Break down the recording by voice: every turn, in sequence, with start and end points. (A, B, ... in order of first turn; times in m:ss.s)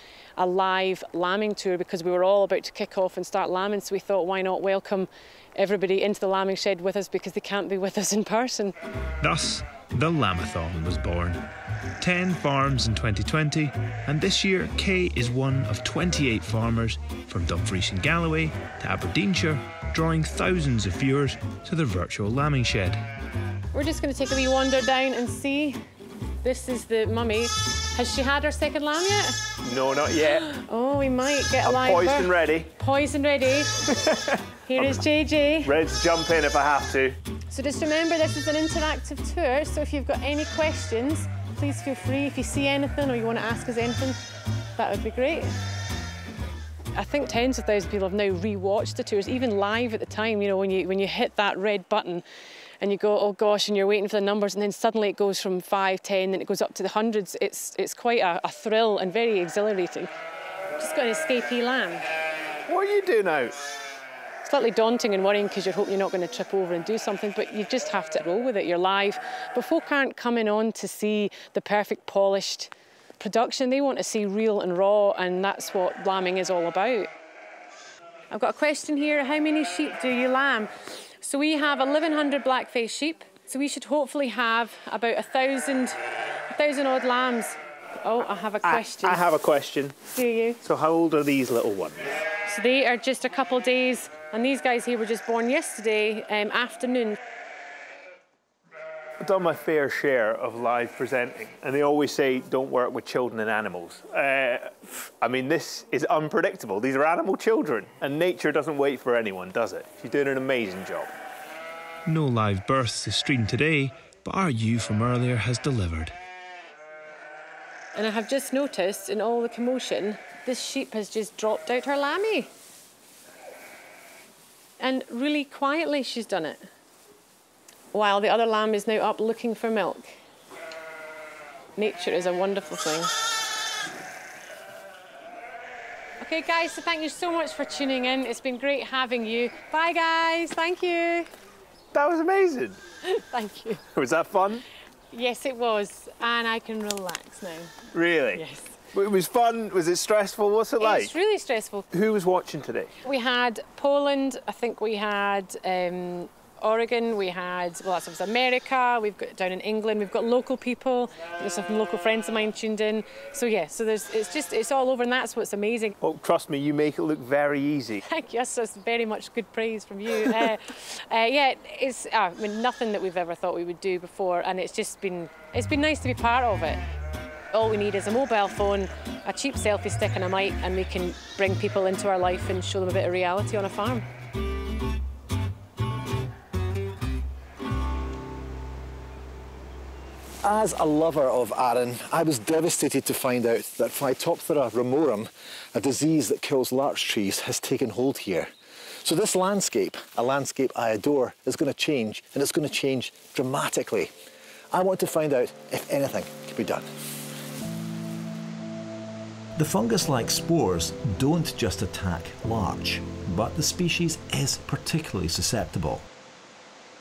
0:00.4-0:08.8 A
0:09.2-0:11.4 B
0:12.0-0:23.0 B
0:23.7-0:25.8 A
0:26.4-0:29.4 A
0:29.7-0:30.5 C
0:30.5-0:33.8 A
0:31.6-0:32.7 C
0:33.9-0:34.2 C
0:34.7-0:35.7 A
0:35.6-0:37.2 C
0:37.5-0:44.2 A
0:44.8-0:45.5 A
0:47.0-0:52.2 A
0:52.8-1:00.1 A
1:00.8-1:02.1 A
1:02.7-1:03.6 C
1:04.4-1:17.1 A
1:18.3-1:26.0 A
1:26.5-1:29.3 A
1:28.6-1:30.0 C
1:30.1-1:30.6 A
1:30.6-1:32.2 C
1:32.5-1:37.2 A
1:39.2-1:51.1 C
1:52.1-1:56.1 B
1:58.0-2:02.5 A
2:04.8-2:06.6 A
2:07.9-2:10.1 A
2:11.8-2:13.1 A
2:16.2-2:21.3 A
2:21.9-2:22.8 C
2:23.1-2:23.8 A
2:24.0-2:24.6 C
2:25.1-2:27.7 A
2:27.9-2:31.1 C
2:28.3-2:28.7 A
2:30.8-2:31.8 A
2:31.9-2:32.9 C
2:33.0-2:45.9 A
2:46.0-2:48.0 C
2:48.1-2:56.8 A
2:57.5-3:04.0 A
3:10.5-3:10.8 D
3:10.5-3:15.2 E
3:11.7-3:15.2 D
3:15.8-3:18.2 E
3:15.8-3:18.4 D
3:19.1-3:24.1 D
3:19.1-3:24.0 E
3:24.8-3:26.6 E
3:24.9-3:26.8 D
3:29.6-3:36.0 D